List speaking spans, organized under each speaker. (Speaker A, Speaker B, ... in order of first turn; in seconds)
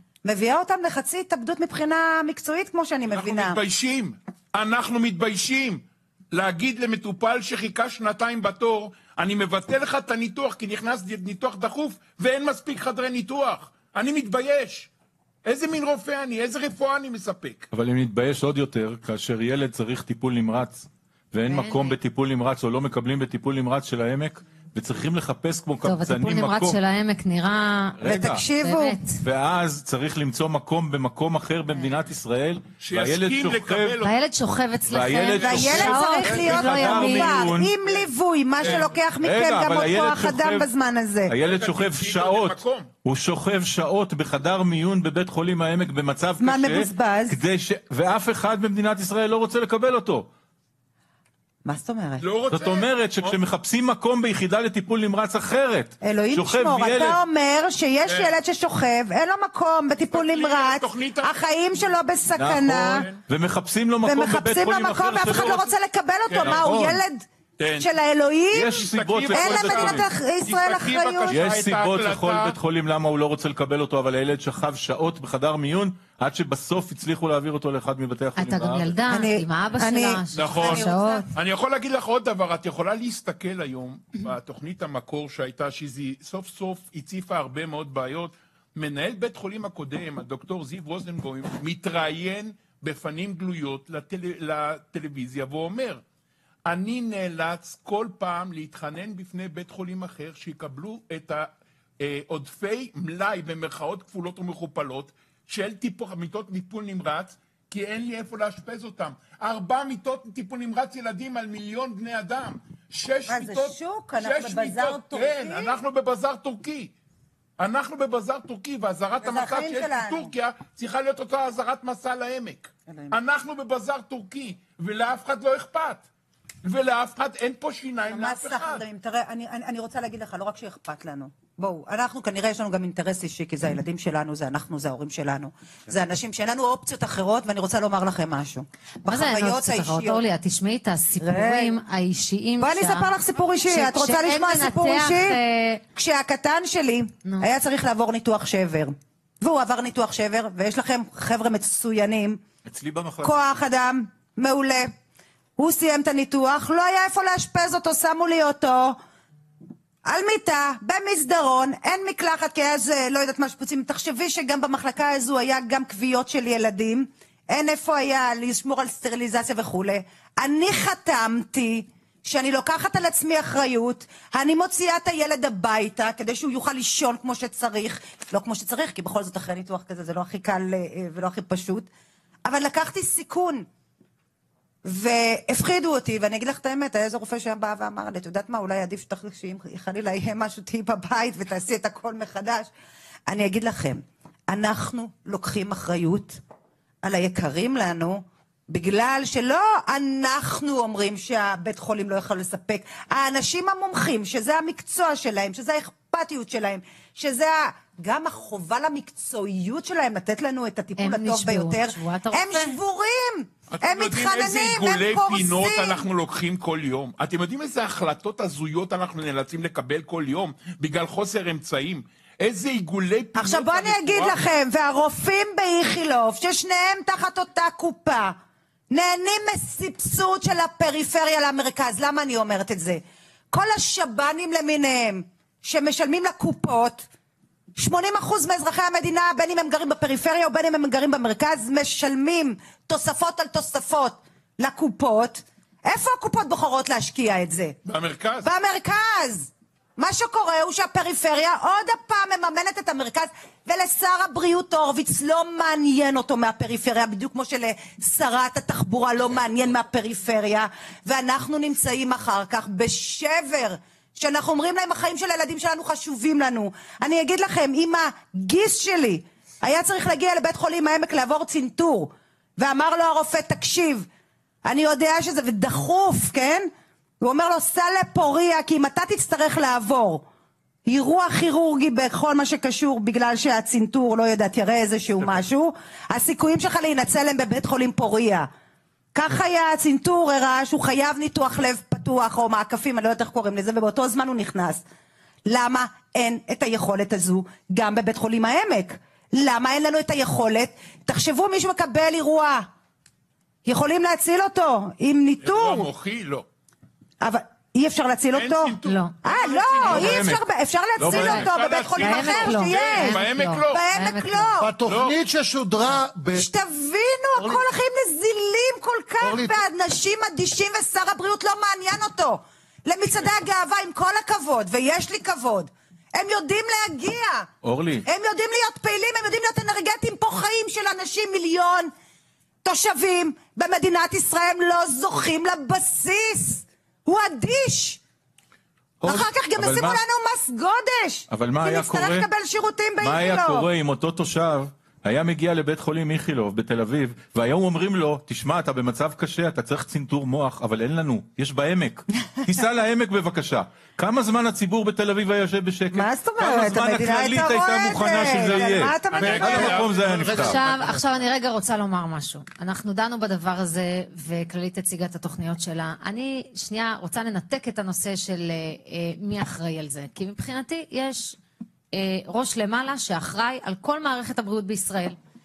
Speaker A: 0.2-3.6, 28.0-29.0, 35.4-41.3, 46.4-47.4, 51.6-52.3, 56.0-63.0, 64.0-67.2, 67.8-71.4, 79.1-81.3, 113.3-115.8, 119.2-120.3, 122.9-123.1, 128.0-140.2, 141.2-141.8, 142.6-145.4, 145.9-152.4, 153.2-154.9, 155.6-159.0, 160.0-181.9, 182.4-183.7, 184.8-192.7, 193.3-196.4, 197.0-216.0, 223.3-228.3, 228.9-237.1, 237.8-247.8, 248.4-274.1, 274.6-276.7, 277.2-280.2, 280.9-288.5, 289.1-294.8, 295.4-302.7, 303.6-305.9, 307.2-314.7, 316.3-327.5, 328.1-331.9, 332.6-338.0, 339.0-343.7, 355.9-359.9
Speaker B: 3.1-14.9, 15.4-17.7, 32.8-34.1, 35.4-36.9, 38.6-39.0, 41.4-42.9, 52.2-53.4, 58.0-58.4, 60.1-61.3, 62.9-63.2, 66.3-66.9, 67.6-67.9, 68.7-72.6, 80.3-96.0, 96.7-116.9, 117.6-126.0, 126.6-128.8, 213.7-224.4, 247.8-248.5, 305.4-306.4, 308.3-310.2, 311.1-313.9, 314.8-315.2, 359.1-360.6
Speaker C: 17.7-26.8, 28.0-28.4, 29.1-34.0, 34.9-37.7, 38.6-40.7, 41.3-50.3, 52.5-57.2, 62.4-65.7, 66.4-67.0, 68.5-70.0, 71.3-79.0, 152.7-153.4, 309.9-310.4, 311.0-311.5, 327.6-328.1, 339.0-340.0, 341.3-342.3, 343.0-360.6
Speaker D: 21.5-22.0, 25.8-29.2, 34.0-37.4, 78.4-81.2, 139.0-143.1, 143.7-145.8, 211.0-212.8, 308.8-309.1, 312.0-314.5, 360.3-371.4, 371.9-375.2
Speaker E: 314.6-316.5, 317.4-317.6, 319.2-319.6, 359.2-360.9